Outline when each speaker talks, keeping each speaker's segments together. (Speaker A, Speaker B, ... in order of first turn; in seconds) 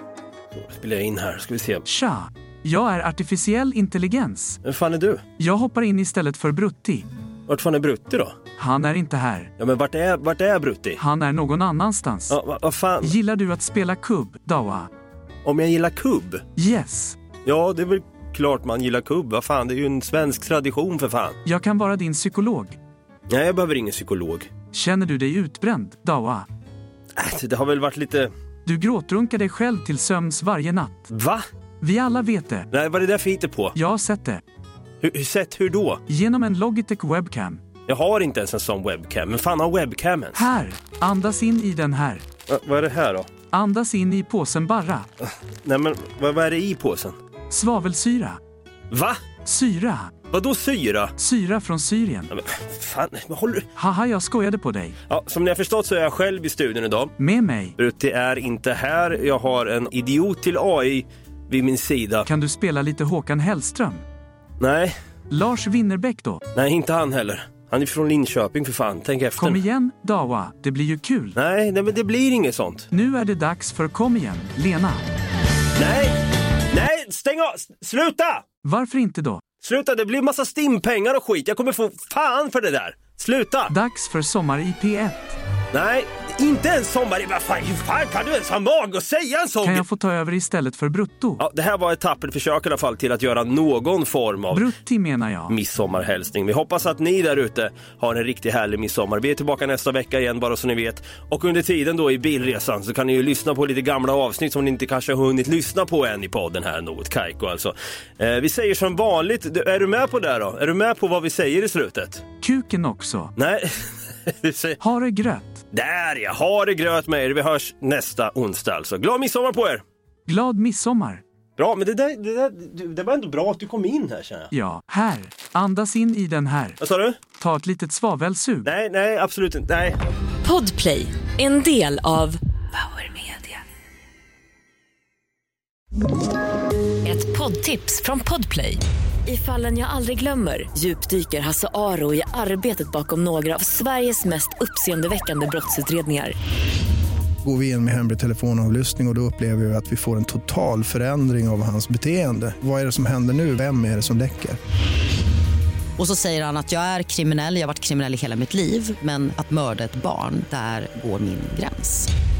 Speaker A: 0.5-1.8, 4.6-5.2, 7.5-8.4, 9.6-11.0, 12.3-13.2, 15.4-16.4, 17.4-21.4, 23.3-24.5, 27.2-28.3, 31.1-31.4, 32.7-33.7, 35.0-36.0, 37.9-40.4, 42.5-43.3, 45.2-47.2, 48.9-49.2, 50.3-51.1, 52.3-53.7, 55.1-57.1, 57.8-62.3, 64.6-64.9, 66.5-69.6, 71.4-72.9, 75.8-76.2, 76.7-78.4, 79.6-83.7, 85.7-89.8, 91.4-94.7, 95.5-112.2, 113.4-114.8, 115.7-119.8, 121.6-124.5, 126.8-127.2, 128.7-130.0
Speaker B: 1.9-4.6, 5.4-7.1, 8.6-9.5, 11.0-12.4, 13.0-14.9, 16.6-17.2, 21.4-22.8, 24.7-26.5, 28.7-31.1, 31.8-32.7, 33.8-34.4, 36.1-37.6, 40.4-42.2, 43.5-45.1, 47.5-48.4, 49.5-50.2, 51.2-52.3, 53.8-55.0, 57.2-57.8, 62.3-64.0, 65.3-66.4, 69.4-71.4, 72.9-75.0, 78.6-79.5, 83.7-85.3, 89.6-91.4, 94.5-95.5, 112.4-113.3, 114.8-115.6, 120.3-121.2, 124.5-126.8, 127.4-128.7
Speaker C: 130.4-133.6, 137.0-146.3
Speaker D: 147.4-154.6
Speaker E: 156.0-162.1